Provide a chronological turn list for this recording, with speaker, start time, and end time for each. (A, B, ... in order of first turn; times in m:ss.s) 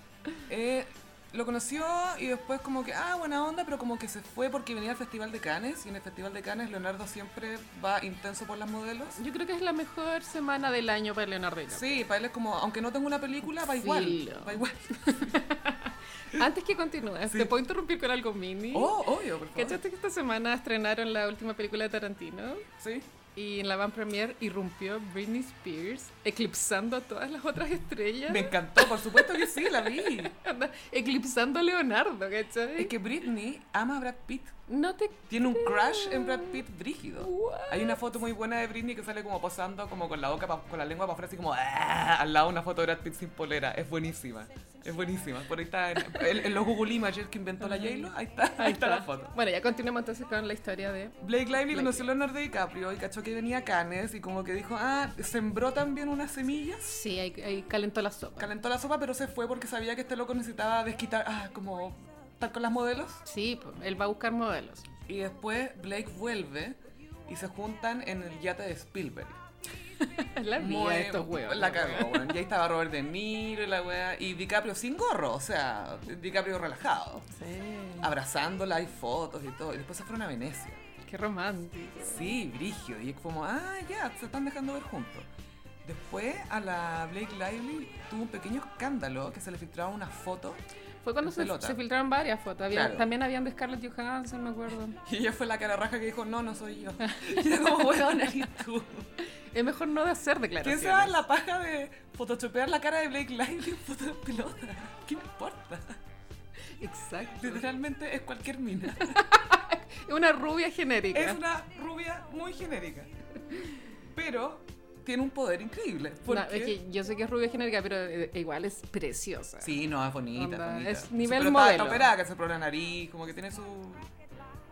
0:00.5-0:09.2 A
0:09.2-0:12.0 B
0:11.7-0:15.4 A
0:13.6-0:19.0 B
0:17.3-0:17.5 A
0:18.7-0:19.8 A
0:19.5-0:22.7 B
0:22.8-0:23.1 A
0:23.4-0:32.9 B
0:28.3-0:30.3 A
0:32.8-0:34.6 A
0:34.7-0:36.6 B
0:35.3-0:49.3 A
0:37.2-0:38.0 B
0:47.6-0:52.1 B
0:51.2-0:57.0 A
0:56.8-0:58.5 B
0:58.4-1:03.2 A
1:03.2-1:04.9 B
1:05.1-1:06.8 A
1:07.3-1:09.4 A
1:10.0-1:12.3 B
1:10.5-1:17.3 A
1:17.3-1:18.1 B
1:18.0-1:20.8 A
1:21.0-1:22.4 B
1:22.0-1:25.3 A
1:25.8-1:30.6 A
1:31.0-1:35.0 B
1:31.2-1:31.8 A
1:32.7-1:33.1 A
1:35.0-1:39.1 A
1:37.0-1:38.4 B
1:39.5-1:41.2 B
1:40.6-1:46.0 A
1:46.8-1:47.6 B
1:47.4-1:49.3 A
1:49.0-1:51.4 B
1:51.1-1:53.1 A
1:54.1-1:56.8 A
1:56.3-1:59.8 B
1:59.6-2:04.1 A
2:00.3-2:02.1 B